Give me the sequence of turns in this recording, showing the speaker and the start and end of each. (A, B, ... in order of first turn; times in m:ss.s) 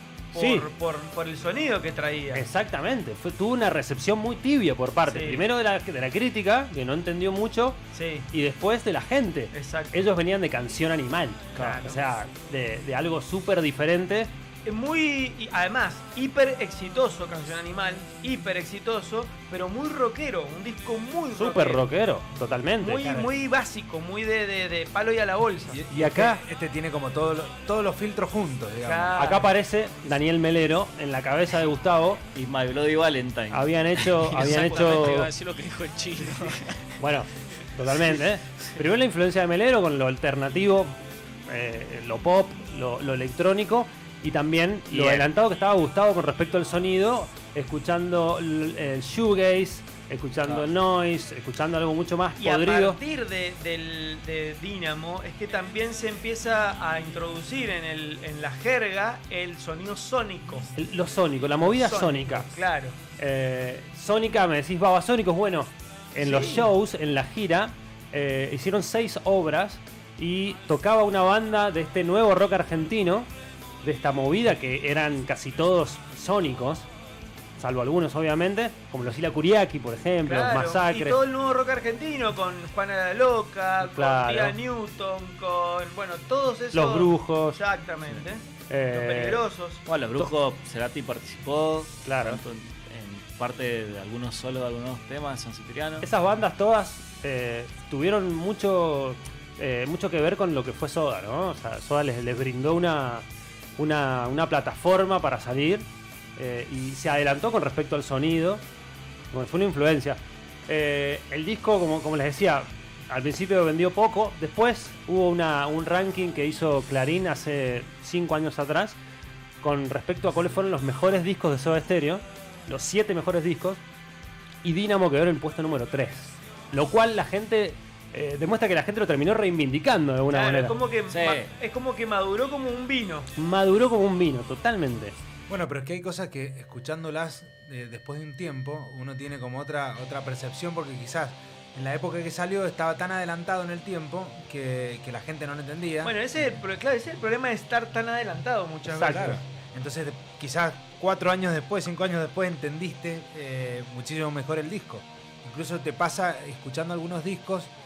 0:00.3-0:02.5 A
0:00.4-0:00.7 B
0:02.4-0:07.8 B
0:05.1-0:05.5 A
0:07.9-0:08.3 A
0:08.3-0:14.3 B
0:09.5-0:10.0 A
0:11.6-0:11.8 C
0:11.6-0:12.0 A
0:14.6-0:21.9 A
0:21.3-0:23.0 B
0:22.8-0:25.8 A
0:23.0-0:23.3 D
0:25.7-0:29.2 D
0:25.9-0:26.4 B
0:28.8-0:29.5 A
0:29.2-0:32.2 B
0:32.3-0:35.3 C
0:33.5-0:35.3 B
0:34.5-0:36.6 E
0:36.2-0:36.6 C
0:37.0-0:53.0 B
0:44.9-0:45.3 C
0:52.4-1:00.7 A
1:00.8-1:02.5 B
1:01.6-1:03.0 A
1:03.2-1:13.3 B
1:06.2-1:06.7 A
1:13.8-1:16.9 B
1:17.6-1:21.2 B
1:20.2-1:29.8 A
1:23.8-1:24.6 B
1:26.7-1:27.6 B
1:28.7-1:29.4 B
1:29.9-1:36.1 C
1:32.0-1:32.4 B
1:36.0-1:43.3 B
1:43.8-1:48.6 B
1:49.3-1:59.0 B
1:59.6-2:03.8 B
2:04.6-2:10.8 B
2:10.3-2:13.3 A
2:11.1-2:11.5 C
2:13.4-2:15.2 B
2:15.5-2:26.2 D
2:26.0-2:29.4 A
2:28.9-2:29.4 B
2:29.0-2:37.7 D